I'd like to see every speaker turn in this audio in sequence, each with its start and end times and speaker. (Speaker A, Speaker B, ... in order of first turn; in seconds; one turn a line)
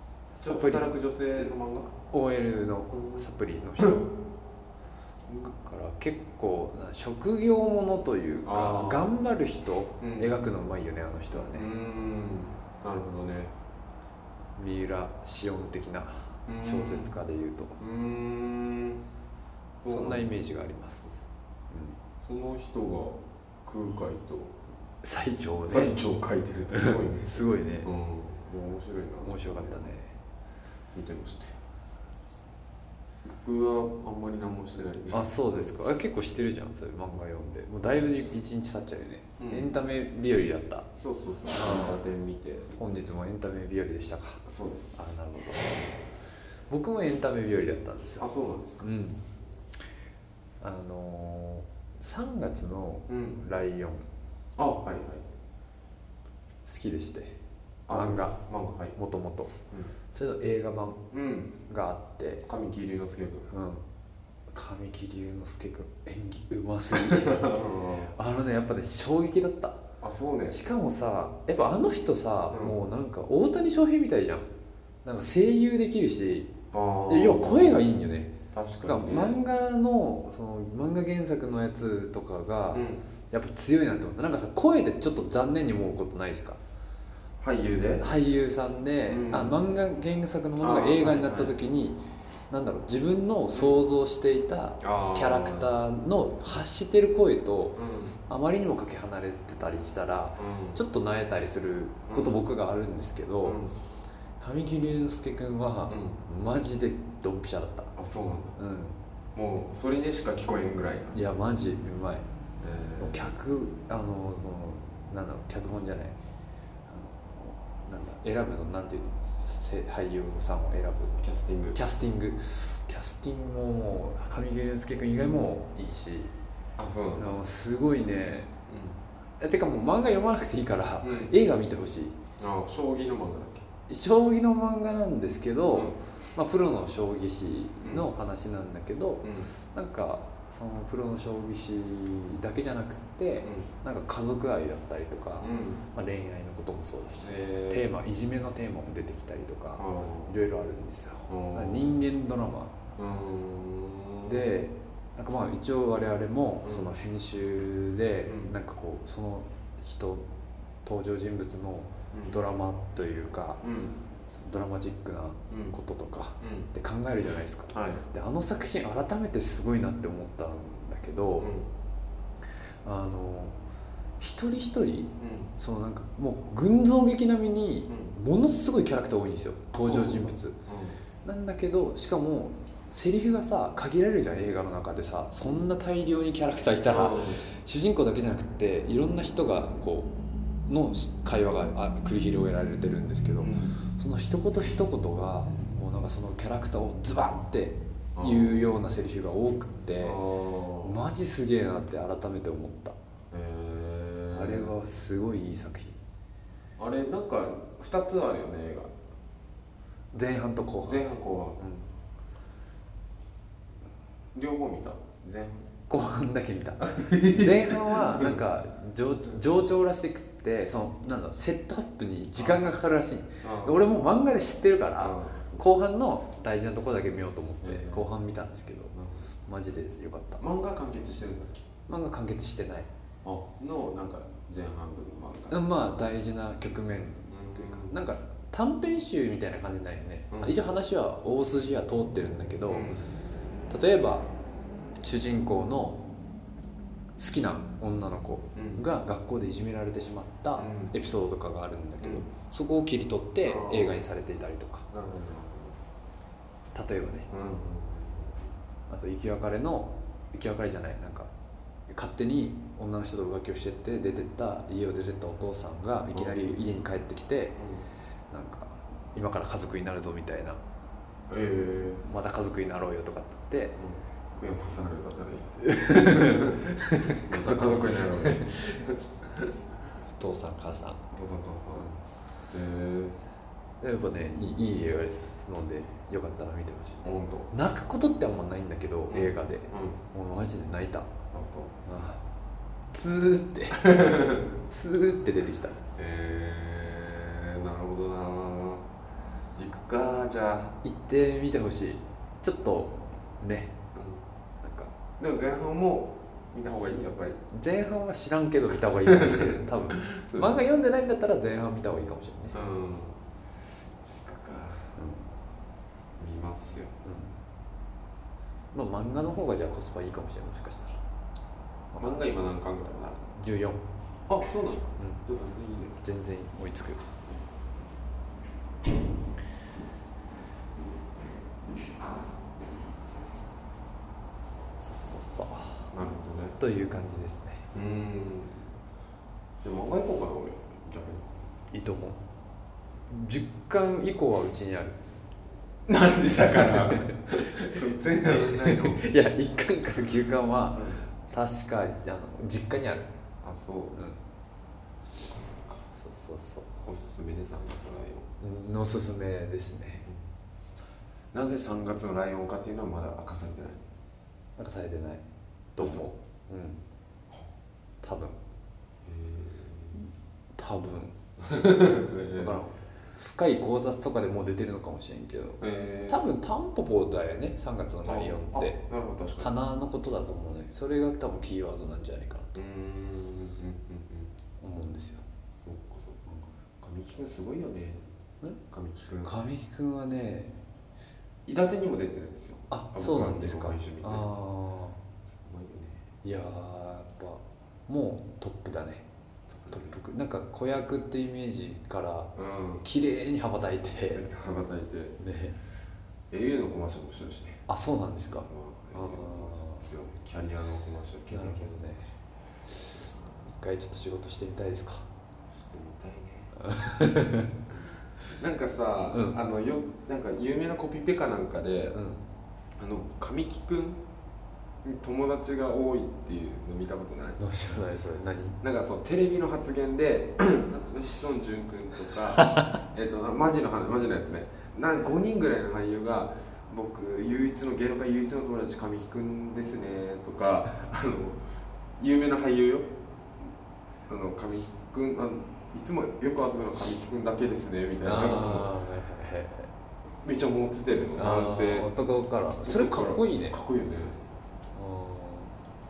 Speaker A: 0.3-0.9
Speaker B: 0.4-1.9
Speaker A: 2.1-4.1
Speaker B: 2.9-3.2
Speaker B: 5.3-5.5
Speaker A: 5.6-11.7
Speaker B: 8.4-9.1
Speaker B: 10.0-10.3
Speaker B: 11.3-13.5
Speaker A: 14.6-17.8
Speaker B: 16.5-17.1
Speaker B: 17.8-19.0
Speaker B: 19.8-20.3
Speaker A: 19.9-22.0
Speaker B: 22.2-24.5
Speaker A: 25.0-26.0
Speaker B: 25.7-29.9
Speaker A: 26.7-27.9
Speaker A: 29.2-30.1
Speaker B: 30.9-31.5
Speaker B: 33.2-35.6
Speaker A: 35.1-40.9
Speaker B: 39.4-39.7
Speaker B: 41.0-42.8
Speaker A: 41.5-42.0
Speaker A: 42.7-44.4
Speaker B: 44.4-45.0
Speaker A: 44.9-45.9
Speaker A: 46.7-48.3
Speaker B: 48.2-48.9
Speaker A: 48.8-49.2
Speaker A: 50.6-54.1
Speaker B: 53.1-53.4
Speaker B: 54.6-55.2
Speaker A: 56.6-57.4
Speaker B: 57.9-58.9
Speaker A: 57.9-58.4
Speaker A: 58.9-59.5
Speaker A: 60.1-61.0
Speaker B: 61.1-61.5
Speaker A: 61.6-62.5
Speaker B: 62.4-63.5
Speaker A: 63.5-63.8
Speaker A: 64.5-67.6
Speaker B: 66.9-68.1
Speaker A: 68.1-69.8
Speaker B: 70.0-70.6
Speaker A: 70.5-74.5
Speaker A: 75.0-76.5
Speaker B: 76.7-77.8
Speaker A: 77.1-86.6
Speaker B: 78.5-79.4
Speaker B: 82.7-83.0
Speaker B: 87.4-88.1
Speaker A: 88.0-103.6
Speaker B: 89.1-89.6
Speaker B: 90.6-91.5
Speaker B: 93.5-93.8
Speaker B: 94.8-95.7
Speaker B: 97.8-98.1
Speaker B: 100.4-100.8
Speaker B: 102.1-102.4
Speaker B: 103.4-103.7
Speaker A: 104.4-107.9
Speaker B: 105.9-106.2
Speaker B: 108.0-108.5
Speaker A: 108.5-109.0
Speaker B: 109.3-111.2
Speaker A: 111.1-112.2
Speaker B: 112.6-113.3
Speaker A: 113.0-116.2
Speaker A: 116.9-121.2
Speaker B: 121.2-121.8
Speaker A: 121.7-126.3
Speaker B: 126.8-127.3
Speaker A: 127.2-128.5
Speaker B: 128.7-129.0
Speaker A: 129.4-132.1
Speaker B: 131.0-131.3
Speaker B: 132.4-133.7
Speaker A: 133.9-152.7
Speaker B: 137.8-138.1
Speaker B: 139.2-139.5
Speaker B: 143.4-143.7
Speaker B: 145.4-145.8
Speaker B: 147.2-147.8
Speaker B: 149.8-150.3
Speaker B: 151.3-151.9
Speaker B: 153.0-154.4
Speaker A: 154.2-160.3
Speaker B: 156.6-156.9
Speaker B: 158.2-158.5
Speaker A: 160.8-163.6
Speaker B: 163.6-164.0
Speaker A: 164.3-171.5
Speaker B: 165.5-165.8
Speaker B: 166.4-166.7
Speaker B: 167.7-168.0
Speaker B: 171.4-171.7
Speaker A: 172.8-173.6
Speaker A: 174.2-180.6
Speaker B: 175.2-175.5
Speaker B: 177.9-178.2
Speaker B: 179.7-181.0
Speaker A: 181.2-190.1
Speaker B: 186.8-187.4
Speaker A: 190.7-200.2
Speaker B: 193.4-193.8
Speaker B: 198.2-198.6
Speaker B: 200.0-201.0
Speaker A: 200.8-203.0
Speaker B: 203.3-204.7
Speaker A: 204.3-206.0
Speaker B: 206.8-208.9
Speaker A: 210.1-211.0
Speaker B: 210.8-211.6
Speaker A: 211.6-211.9
Speaker B: 214.3-215.7
Speaker A: 215.9-228.9
Speaker B: 216.8-218.4
Speaker B: 222.3-222.6
Speaker B: 223.4-223.8
Speaker B: 225.0-225.6
Speaker B: 227.6-228.1
Speaker B: 228.9-229.3
Speaker A: 229.5-230.4
Speaker B: 230.4-231.7
Speaker A: 231.9-232.9
Speaker B: 233.2-235.6
Speaker A: 235.5-242.9
Speaker B: 237.3-238.0
Speaker B: 242.7-243.1
Speaker A: 243.7-244.3
Speaker A: 245.0-246.0
Speaker A: 247.2-254.8
Speaker B: 248.6-248.8
Speaker B: 250.6-250.9
Speaker B: 252.0-252.3
Speaker B: 253.4-254.0
Speaker B: 254.9-255.8
Speaker A: 256.7-257.3
Speaker B: 257.3-258.5
Speaker A: 258.9-261.3
Speaker A: 261.9-267.6
Speaker B: 267.6-267.8
Speaker A: 268.3-270.6
Speaker B: 271.3-272.0
Speaker A: 272.0-273.8
Speaker B: 273.8-279.5
Speaker A: 275.6-278.5
Speaker A: 280.1-281.0
Speaker B: 281.1-282.0
Speaker B: 282.5-283.2
Speaker A: 283.8-291.1
Speaker B: 287.0-287.5
Speaker B: 289.1-290.0
Speaker B: 291.3-291.8
Speaker A: 291.9-292.2
Speaker A: 292.9-295.8
Speaker B: 293.7-294.5
Speaker B: 295.9-298.8
Speaker B: 299.5-300.8
Speaker A: 300.8-303.7
Speaker B: 303.9-304.2
Speaker A: 304.6-304.9
Speaker B: 305.2-307.4
Speaker A: 307.5-312.6
Speaker B: 308.7-310.6
Speaker B: 312.5-313.2
Speaker B: 314.0-314.9
Speaker A: 315.0-315.3
Speaker B: 316.2-316.9
Speaker A: 317.0-317.3
Speaker A: 318.7-321.0
Speaker A: 321.9-322.2
Speaker B: 322.0-323.2
Speaker A: 323.3-323.8
Speaker B: 324.3-326.0
Speaker A: 326.0-327.0
Speaker A: 334.8-335.9
Speaker B: 335.9-336.6
Speaker A: 336.6-337.7
Speaker B: 337.7-338.7
Speaker B: 339.6-341.5
Speaker A: 341.7-342.2
Speaker A: 343.1-345.0
Speaker B: 345.9-349.0
Speaker A: 346.7-353.1
Speaker B: 350.7-351.0
Speaker B: 353.4-354.0
Speaker B: 355.2-355.8
Speaker A: 355.9-356.7
Speaker B: 356.8-358.3
Speaker A: 358.4-360.1
Speaker B: 361.3-363.8
Speaker A: 364.6-365.2
Speaker A: 365.7-366.8
Speaker B: 365.8-366.1
Speaker A: 368.0-368.4
Speaker B: 369.0-370.0
Speaker A: 369.9-371.1
Speaker B: 371.4-372.6
Speaker A: 372.3-378.8
Speaker B: 375.6-376.2
Speaker B: 378.0-379.5
Speaker A: 379.4-382.6
Speaker B: 382.5-384.3
Speaker A: 384.6-385.2
Speaker B: 385.6-386.2
Speaker B: 386.8-388.1
Speaker B: 388.7-389.3
Speaker A: 389.2-390.5
Speaker B: 391.4-394.3
Speaker A: 392.7-395.0
Speaker B: 395.3-396.0
Speaker A: 396.2-399.0
Speaker B: 399.5-399.9
Speaker A: 399.7-404.2
Speaker B: 402.4-402.8
Speaker B: 404.1-405.1
Speaker A: 405.2-405.6
Speaker B: 406.3-407.6
Speaker A: 407.7-409.9
Speaker B: 408.2-411.6
Speaker A: 411.3-412.1
Speaker A: 412.7-415.0
Speaker B: 412.9-413.3
Speaker B: 415.5-416.5
Speaker A: 416.6-417.5
Speaker B: 418.4-422.0
Speaker A: 419.1-419.4
Speaker A: 421.9-422.2
Speaker B: 422.8-424.0
Speaker B: 424.8-427.4
Speaker A: 427.4-428.6
Speaker B: 428.6-441.4
Speaker A: 432.3-432.8
Speaker B: 442.0-443.0
Speaker B: 444.1-448.7
Speaker A: 448.0-449.7
Speaker B: 450.2-451.9
Speaker A: 451.2-453.6
Speaker B: 452.6-454.2
Speaker A: 454.7-455.5